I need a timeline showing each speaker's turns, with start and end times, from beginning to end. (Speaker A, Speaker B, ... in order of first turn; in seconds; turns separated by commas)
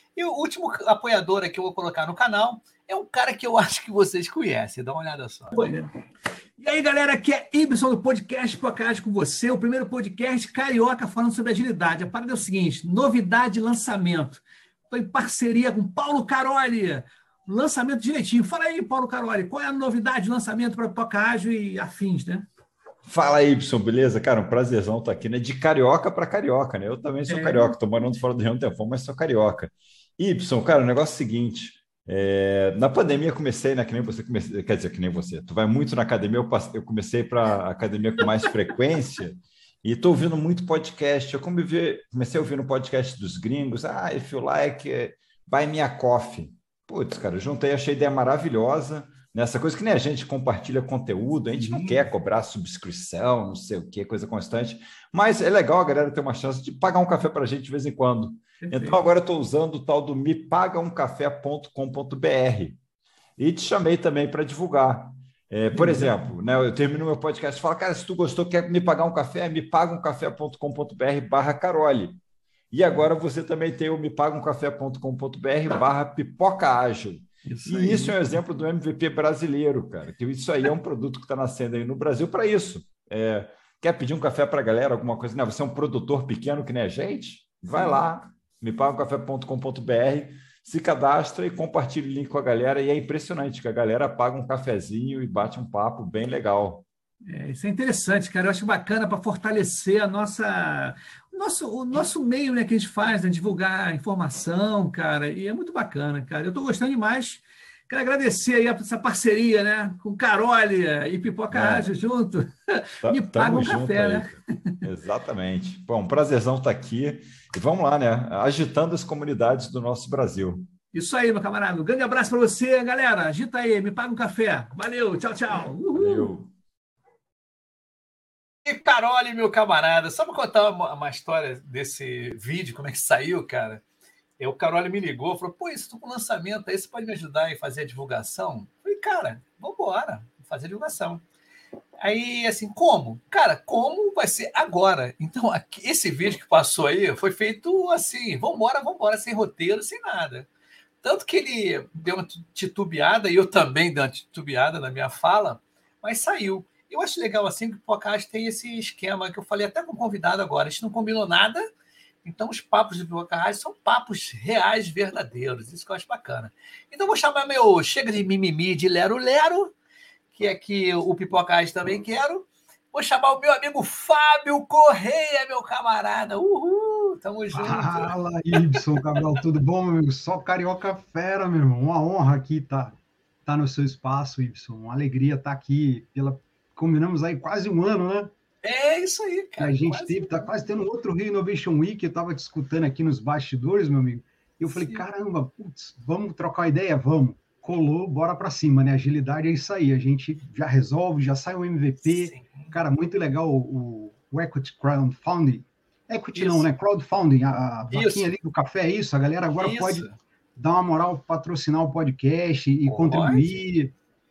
Speaker A: 0.2-5.9, Speaker A: 6.6-22.5, Speaker B: 23.1-62.8, Speaker A: 27.3-27.8, Speaker A: 51.6-51.9, Speaker A: 58.6-59.0, Speaker B: 63.4-72.2, Speaker A: 65.8-66.2, Speaker B: 72.7-96.9, Speaker A: 77.5-78.2, Speaker A: 97.3-114.4, Speaker B: 111.5-111.9, Speaker B: 113.0-120.7, Speaker A: 120.9-126.3, Speaker B: 125.9-126.5, Speaker A: 128.7-133.8, Speaker A: 134.4-141.2, Speaker A: 142.0-150.5, Speaker A: 151.0-161.7, Speaker A: 162.2-169.7, Speaker A: 170.3-178.8, Speaker C: 177.5-188.3, Speaker A: 188.6-190.4, Speaker C: 189.6-213.9, Speaker A: 194.7-195.0, Speaker A: 202.1-202.8, Speaker A: 206.3-206.7, Speaker A: 207.9-208.3, Speaker A: 209.6-210.2, Speaker A: 212.9-213.6